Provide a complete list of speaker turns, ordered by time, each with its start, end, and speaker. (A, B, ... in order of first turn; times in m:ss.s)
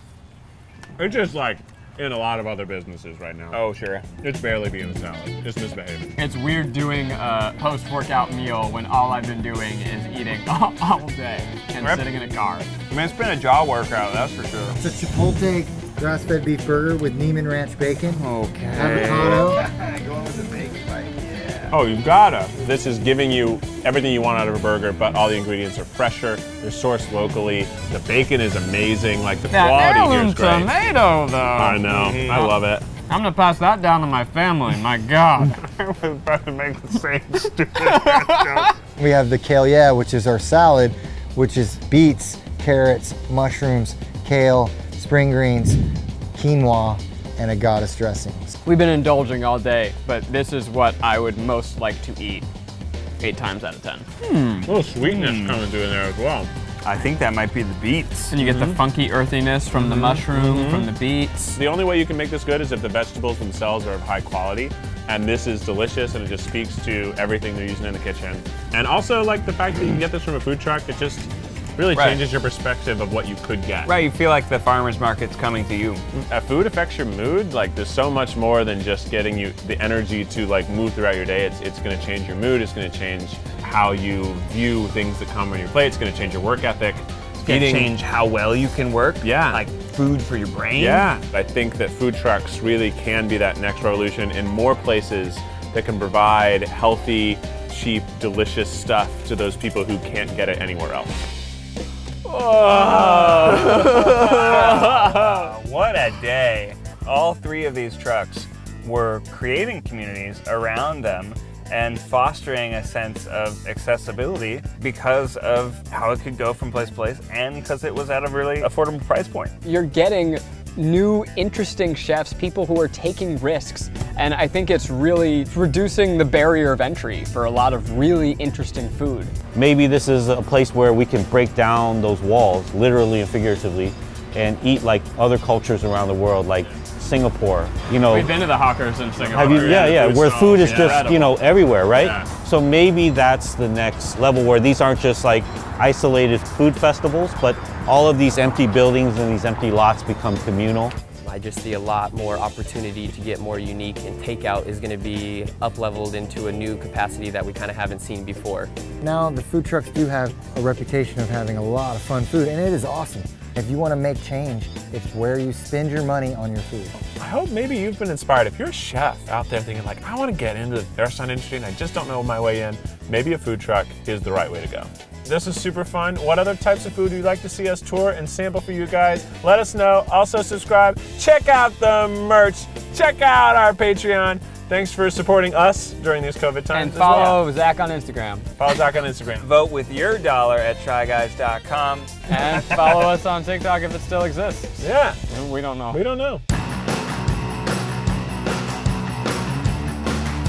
0:01.0-0:03.6 A
0:03.5-0:04.1 B
0:04.2-0:06.1 A
0:06.2-0:12.7 C
0:12.9-0:14.8 B
0:14.8-0:19.7 D
0:18.1-0:21.7 B
0:21.7-0:30.7 A
0:29.5-0:35.7 C
0:31.5-0:32.9 A
0:36.0-0:38.7 A
0:37.7-0:38.7 C
0:39.0-0:45.8 D
0:46.3-0:48.6 D
0:48.6-0:52.5 C
0:53.2-0:54.7 C
0:54.6-0:56.5 A
0:55.0-0:55.6 B
0:56.8-0:58.4 B
0:58.3-1:01.6 C
0:58.4-0:58.8 A
0:59.8-1:00.9 A
1:01.6-1:14.0 A
1:11.9-1:12.3 B
1:13.9-1:16.0 B
1:16.1-1:27.9 A
1:27.4-1:31.2 B
1:29.2-1:29.6 A
1:30.8-1:41.2 A
1:42.3-1:45.5 C
1:42.5-1:59.5 B
1:59.6-2:09.3 C
2:09.5-2:18.3 E
2:18.1-2:21.3 C
2:19.1-2:21.4 A
2:19.3-2:30.9 E
2:21.9-2:22.3 A
2:31.2-2:38.7 F
2:39.0-2:46.9 D
2:47.1-3:07.4 A
3:06.7-3:08.5 C
3:08.6-3:09.5 A
3:09.4-3:12.1 B
3:12.3-3:14.8 C
3:14.8-3:15.2 A
3:15.3-3:16.0 C
3:15.9-3:16.4 A